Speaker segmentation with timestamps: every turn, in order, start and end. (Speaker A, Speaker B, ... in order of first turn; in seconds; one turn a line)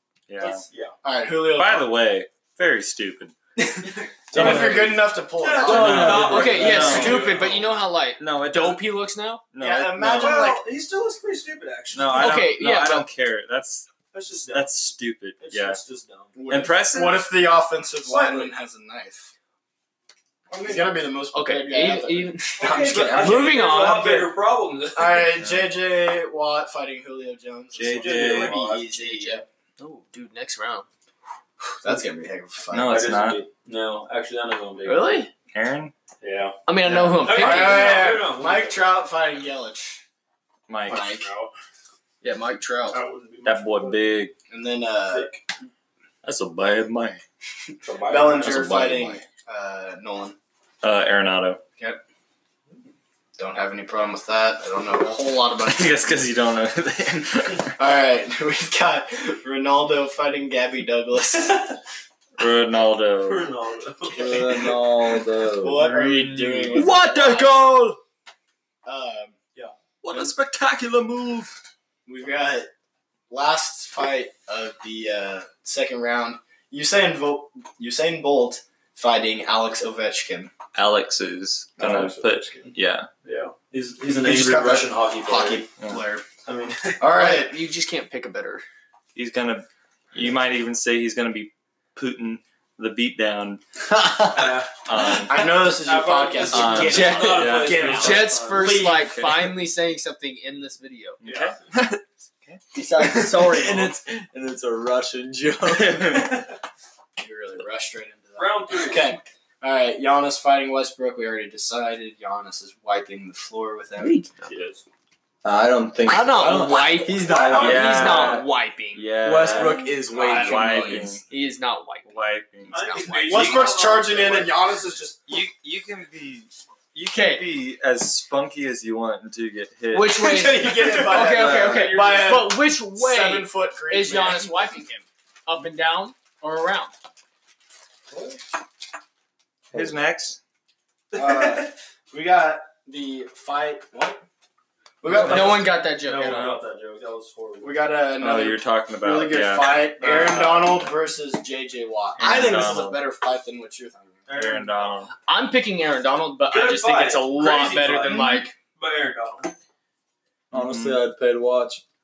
Speaker A: 0.3-0.7
Speaker B: 0.4-0.9
Speaker C: 1.0-2.0
Speaker A: 1.4-3.3
Speaker C: 3.6-7.2
Speaker B: 3.9-4.8
Speaker D: 4.3-5.1
Speaker A: 4.4-4.7
Speaker B: 5.3-7.8
Speaker D: 5.6-7.0
Speaker A: 5.7-7.4
Speaker E: 6.2-9.4
Speaker A: 8.2-8.9
Speaker A: 9.5-10.6
Speaker C: 9.6-10.7
Speaker B: 10.0-12.6
Speaker A: 11.9-13.9
Speaker E: 12.1-13.1
Speaker B: 14.1-14.8
Speaker A: 14.5-15.8
Speaker B: 15.4-16.3
Speaker C: 16.4-19.3
Speaker A: 16.5-17.3
Speaker B: 18.0-18.5
Speaker B: 20.5-20.9
Speaker C: 20.6-24.1
Speaker E: 21.3-24.3
Speaker B: 22.6-25.4
Speaker C: 24.9-29.4
Speaker A: 25.4-25.7
Speaker D: 27.8-28.8
Speaker B: 27.9-28.7
Speaker E: 28.7-30.9
Speaker C: 31.8-33.0
Speaker A: 32.7-33.4
Speaker B: 32.9-35.2
Speaker E: 34.8-35.3
Speaker A: 35.5-35.9
Speaker B: 36.2-36.6
Speaker E: 36.7-38.1
Speaker A: 36.8-37.2
Speaker B: 37.2-39.0
Speaker C: 37.3-40.0
Speaker A: 40.7-41.1
Speaker C: 40.9-41.3
Speaker B: 40.9-41.5
Speaker E: 42.2-43.0
Speaker B: 42.9-44.0
Speaker A: 43.4-44.3
Speaker C: 44.5-45.3
Speaker B: 45.1-45.4
Speaker A: 46.2-47.2
Speaker B: 47.8-48.7
Speaker C: 48.0-50.4
Speaker A: 48.4-49.2
Speaker A: 50.8-51.6
Speaker C: 53.4-56.3
Speaker A: 55.5-57.7
Speaker C: 57.8-61.8
Speaker A: 62.4-63.5
Speaker B: 63.2-64.3
Speaker C: 64.2-67.8
Speaker D: 64.2-65.9
Speaker A: 65.7-68.0
Speaker C: 68.8-69.3
Speaker A: 70.0-71.6
Speaker C: 72.1-72.7
Speaker C: 73.3-80.5
Speaker A: 80.8-83.1
Speaker B: 81.8-82.7
Speaker B: 83.2-85.6
Speaker C: 84.1-86.3
Speaker B: 86.5-87.0
Speaker C: 87.0-87.6
Speaker E: 87.1-88.6
Speaker A: 89.2-93.6
Speaker D: 93.9-94.6
Speaker B: 94.3-94.7
Speaker A: 94.8-95.6
Speaker C: 95.0-99.0
Speaker B: 95.4-98.8
Speaker A: 96.5-98.0
Speaker D: 96.8-97.2
Speaker E: 97.0-101.2
Speaker A: 98.6-99.6
Speaker A: 101.2-103.0
Speaker B: 101.2-101.7
Speaker C: 102.7-103.9
Speaker D: 103.0-106.4
Speaker A: 105.7-106.4
Speaker C: 107.2-114.2
Speaker B: 108.4-109.2
Speaker B: 114.4-114.8
Speaker D: 115.4-118.3
Speaker E: 116.0-119.1
Speaker B: 117.2-118.4
Speaker A: 117.6-121.2
Speaker D: 119.2-121.2
Speaker E: 120.1-122.1
Speaker A: 122.0-123.1
Speaker E: 122.7-123.7
Speaker B: 122.7-124.6
Speaker C: 123.3-125.2
Speaker A: 125.3-131.9
Speaker E: 127.1-127.5
Speaker E: 129.9-136.9
Speaker C: 130.2-134.8
Speaker B: 130.8-132.5
Speaker C: 138.1-138.4
Speaker A: 139.7-140.4
Speaker C: 141.1-144.2
Speaker B: 141.2-141.7
Speaker C: 145.0-145.7
Speaker A: 145.1-145.6
Speaker B: 145.2-147.8
Speaker E: 145.2-146.6
Speaker C: 147.6-154.2
Speaker A: 148.2-150.8
Speaker B: 150.0-150.5
Speaker A: 152.2-153.0
Speaker B: 154.3-155.1
Speaker A: 154.3-155.1
Speaker E: 155.3-158.5
Speaker B: 156.5-159.5
Speaker A: 160.5-161.0
Speaker D: 160.5-161.8